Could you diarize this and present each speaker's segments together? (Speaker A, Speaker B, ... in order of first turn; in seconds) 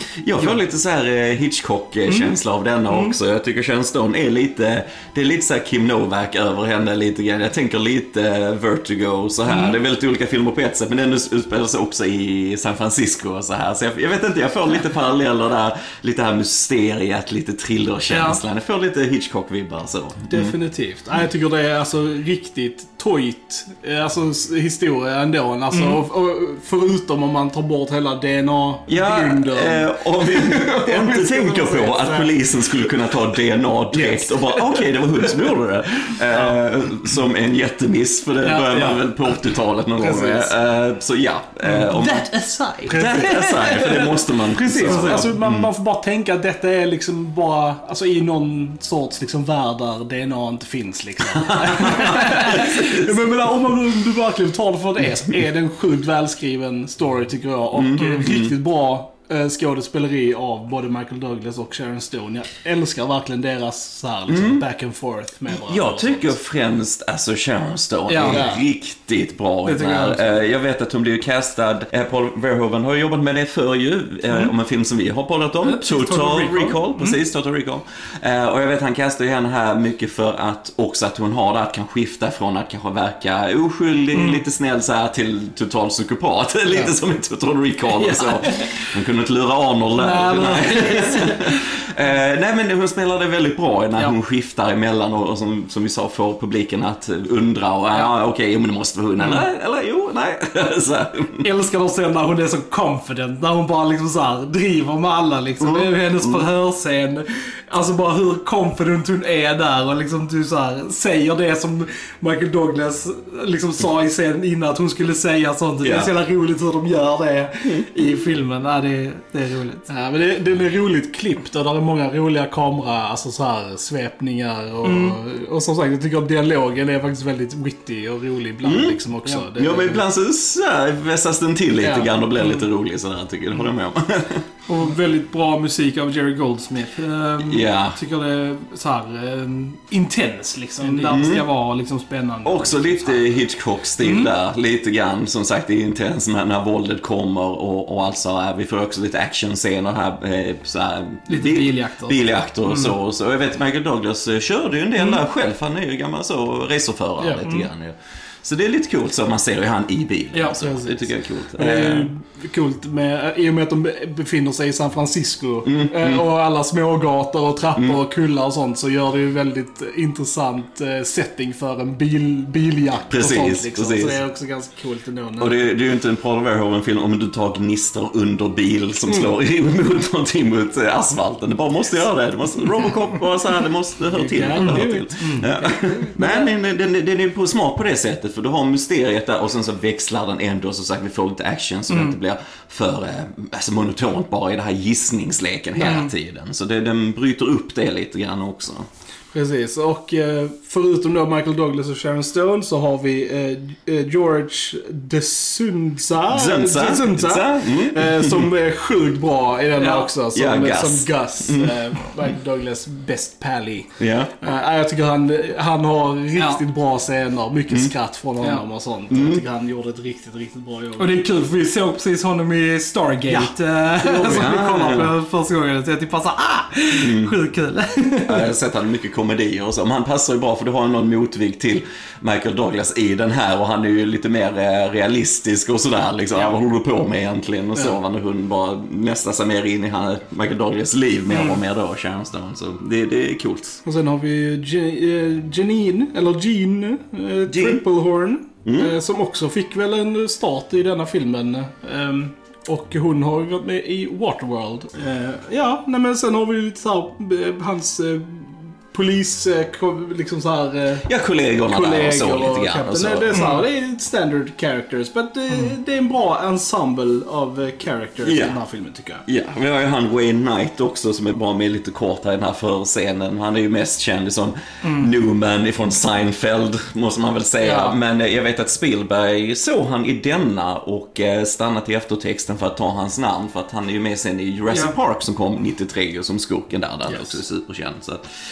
Speaker A: 0.2-20.6, 28.9-42.3, 42.9-45.7, 51.5-53.1, 57.7-58.5, 64.3-64.6, 65.5-101.4, 105.6-106.5, 115.8-116.1, 128.6-134.4, 137.4-138.0, 141.1-141.5, 142.4-162.1, 165.6-166.2, 173.1-174.2, 175.4-198.9, 206.3-208.5, 210.3-211.9, 214.0-214.3, 219.1-219.4, 224.2-225.1, 227.0-227.3, 228.2-243.8, 247.5-247.8, 248.6-248.9, 261.0-263.4, 268.2-268.6, 269.2-288.2
Speaker B: 0.3-0.6, 2.1-2.4, 2.9-3.1, 9.5-9.8, 18.1-18.4, 25.7-26.0, 38.4-39.0, 41.6-45.3, 52.0-52.8, 58.0-58.2, 68.1-68.5, 69.6-70.2, 75.6-77.2, 84.1-84.4, 87.9-88.8, 89.9-91.6, 99.2-99.5, 101.4-119.9, 124.8-125.2, 132.4-132.7, 134.7-143.4, 144.0-144.3, 151.3-152.9, 157.4-157.7, 160.3-160.9, 184.6-185.5, 191.9-192.2, 195.8-196.1, 209.8-210.1, 216.3-216.6, 221.0-228.5, 241.3-241.6, 263.3-263.6, 274.8-275.1, 277.6-277.9, 284.7-284.9
Speaker C: 20.3-32.8, 33.9-34.3, 40.0-40.5, 42.9-43.2, 44.6-66.3, 68.2-68.6, 119.9-130.0, 131.8-132.1, 140.8-141.2, 157.2-157.5, 161.6-175.7, 184.1-186.5, 199.3-221.1, 223.3-224.5, 243.8-261.1, 261.6-269.2